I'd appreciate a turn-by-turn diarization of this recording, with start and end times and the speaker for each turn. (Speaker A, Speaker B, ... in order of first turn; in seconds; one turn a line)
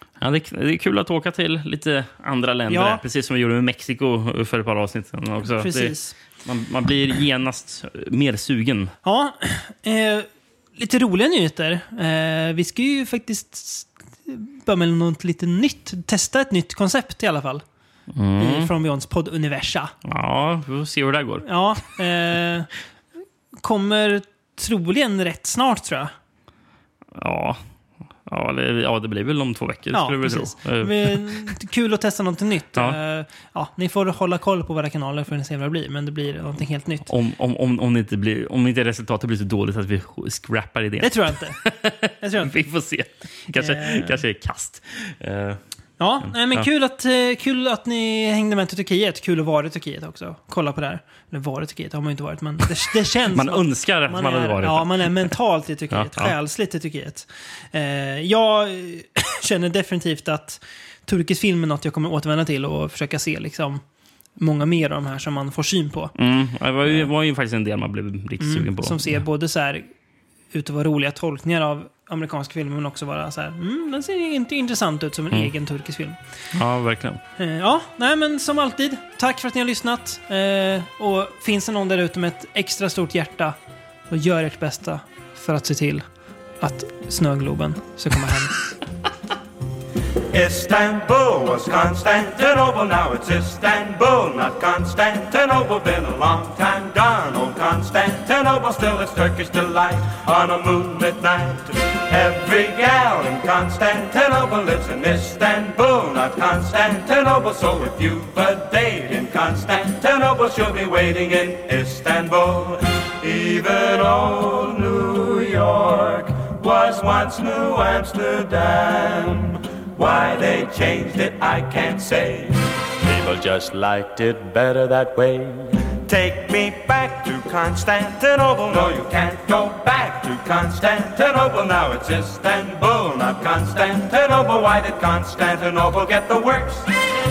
Speaker A: 0.2-8.9
Speaker B: 2.7-3.0
Speaker B: 5.5-6.2
Speaker B: 9.0-17.6
Speaker A: 18.1-18.7
Speaker B: 18.4-19.9
Speaker A: 20.0-21.4
Speaker B: 21.4-22.7
Speaker B: 23.6-26.1
Speaker A: 27.1-27.6
Speaker A: 28.2-31.5
Speaker B: 29.9-37.0
Speaker A: 37.0-45.6
Speaker B: 41.0-41.6
Speaker B: 42.2-42.5
Speaker B: 43.5-44.2
Speaker B: 46.0-63.8
Speaker A: 46.2-46.6
Speaker A: 53.3-55.3
Speaker A: 55.9-56.3
Speaker B: 64.4-66.1
Speaker A: 66.2-69.2
Speaker B: 68.4-69.9
Speaker B: 70.5-76.2
Speaker A: 76.5-77.2
Speaker B: 77.4-83.5
Speaker B: 84.1-86.0
Speaker B: 86.6-88.7
Speaker C: 90.3-136.9